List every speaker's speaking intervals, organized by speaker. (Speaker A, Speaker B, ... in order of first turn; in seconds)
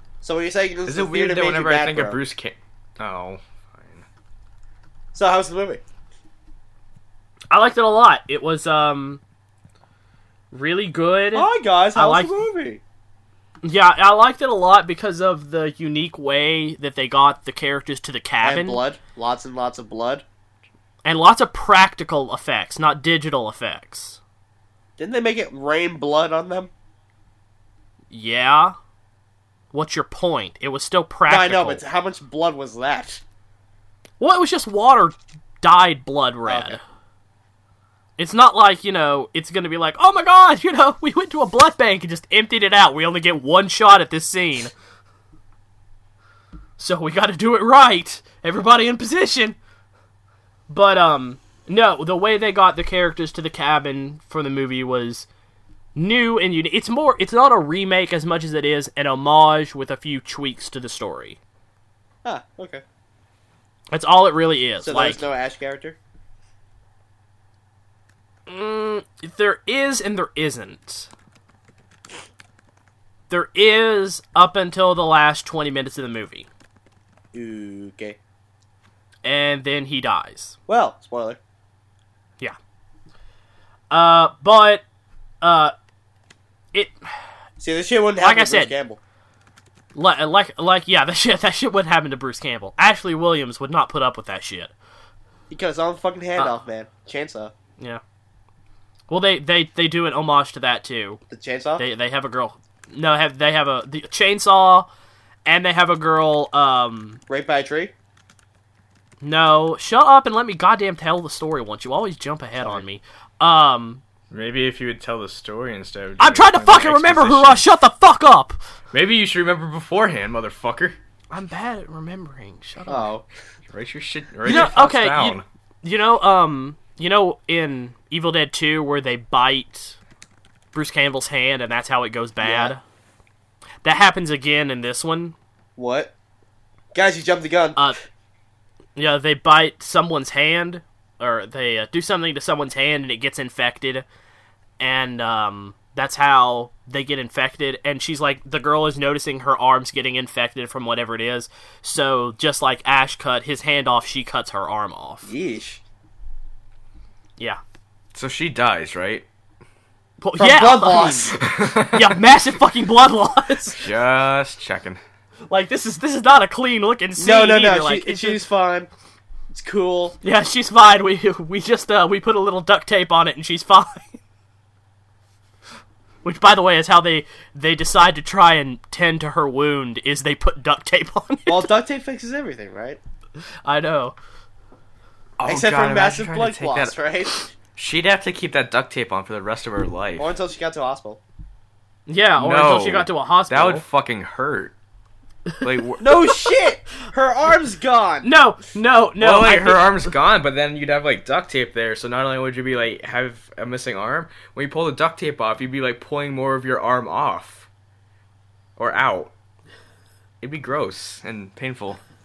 Speaker A: 0.2-2.2, 5.1-5.8, 11.3-12.8, 18.4-20.2, 25.0-26.7, 31.3-33.2, 36.5-36.8, 62.2-62.8, 64.8-66.0, 77.3-78.2, 80.7-81.4, 87.6-89.0, 95.5-97.5, 101.3-101.8, 107.3-107.9, 112.6-112.8, 122.9-123.3, 132.4-132.7, 135.8-136.1, 136.9-137.9, 155.2-155.8, 160.4-161.4, 167.2-168.9, 169.5-170.2, 181.5-183.0, 185.4-187.5, 190.2-191.2, 196.0-198.3
Speaker B: 0.8-4.0, 114.3-117.7, 118.9-121.0, 123.7-125.4, 158.1-159.2, 161.4-162.2, 163.8-165.0, 185.4-187.0, 187.7-190.3, 192.3-194.7, 195.6-196.4, 199.2-207.7, 208.8-209.3, 210.4-212.0
Speaker C: 7.5-9.2, 10.5-12.3, 13.6-18.8, 21.0-24.2, 28.1-28.8, 29.7-31.8, 34.2-36.8, 38.2-44.7, 46.8-49.6, 50.7-55.3, 55.9-61.4, 63.9-65.2, 68.5-71.1, 73.3-76.5, 79.2-80.5, 83.9-84.8, 85.4-85.7, 86.7-87.0, 88.2-88.7, 89.9-94.7, 99.1-101.2, 101.8-104.9, 105.5-107.2, 109.2-114.0, 116.2-118.6, 121.3-123.1, 124.4-129.9, 130.7-132.8, 133.8-135.3, 138.9-144.0, 144.8-155.3, 160.2-163.8, 165.5-168.4, 170.2-174.2, 176.2-181.7, 183.6-184.2, 192.1-193.8, 198.2-200.1